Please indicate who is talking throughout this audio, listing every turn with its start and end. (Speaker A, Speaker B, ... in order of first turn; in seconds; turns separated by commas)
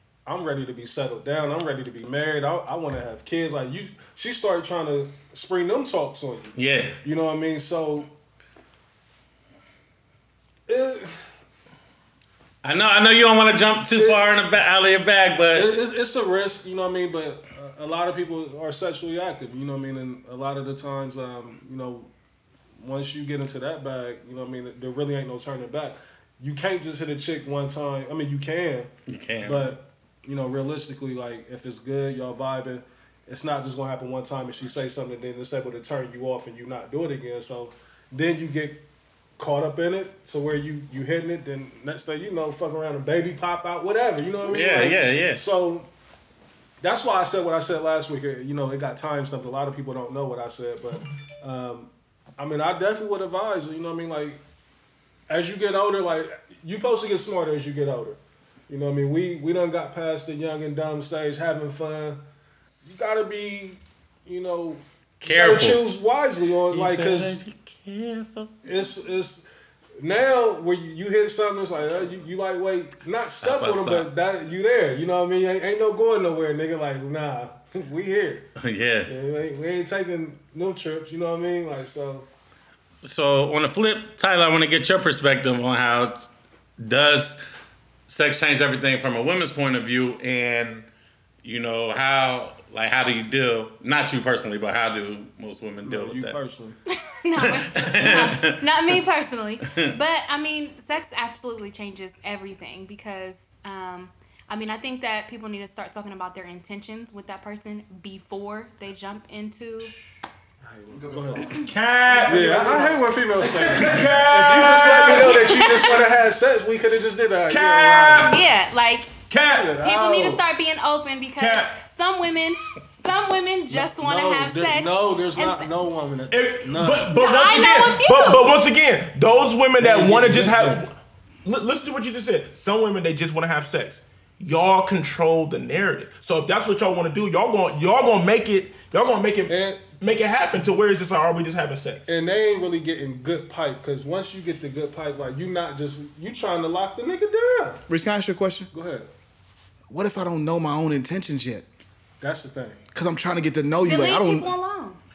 Speaker A: 0.3-8.1, Speaker B: 6.6-7.0, Speaker A: 10.7-11.1, Speaker B: 12.6-15.7, Speaker A: 14.0-14.3, Speaker A: 15.5-22.1, Speaker A: 22.8-28.9, Speaker B: 29.1-29.7, Speaker A: 29.4-38.9, Speaker A: 39.4-45.9, Speaker B: 44.4-45.5, Speaker A: 46.8-54.4, Speaker A: 55.3-62.2, Speaker A: 62.8-67.4, Speaker B: 65.2-65.9, Speaker B: 66.7-68.7, Speaker A: 68.7-69.5, Speaker A: 70.0-78.5, Speaker B: 73.4-74.1, Speaker B: 78.6-79.1, Speaker A: 79.1-82.3, Speaker B: 83.0-86.2, Speaker B: 86.8-87.4, Speaker B: 88.1-90.9, Speaker B: 91.4-96.4, Speaker A: 95.8-96.8, Speaker C: 96.9-109.9, Speaker B: 97.4-98.6, Speaker A: 110.6-118.4, Speaker D: 110.9-111.6, Speaker E: 111.5-113.0, Speaker D: 112.4-112.9, Speaker E: 113.6-115.6, Speaker C: 115.4-115.9, Speaker E: 117.5-118.4, Speaker C: 118.2-119.1, Speaker E: 119.3-119.7, Speaker A: 119.4-120.4, Speaker C: 119.8-125.7, Speaker E: 121.4-121.8, Speaker A: 123.7-127.2, Speaker E: 126.3-142.1, Speaker C: 127.1-128.6, Speaker A: 129.8-130.8, Speaker A: 139.5-139.9, Speaker A: 142.1-147.8, Speaker D: 147.9-148.7, Speaker A: 148.7-149.1, Speaker D: 149.9-151.7, Speaker A: 152.2-152.8, Speaker D: 152.9-154.5, Speaker C: 153.8-155.0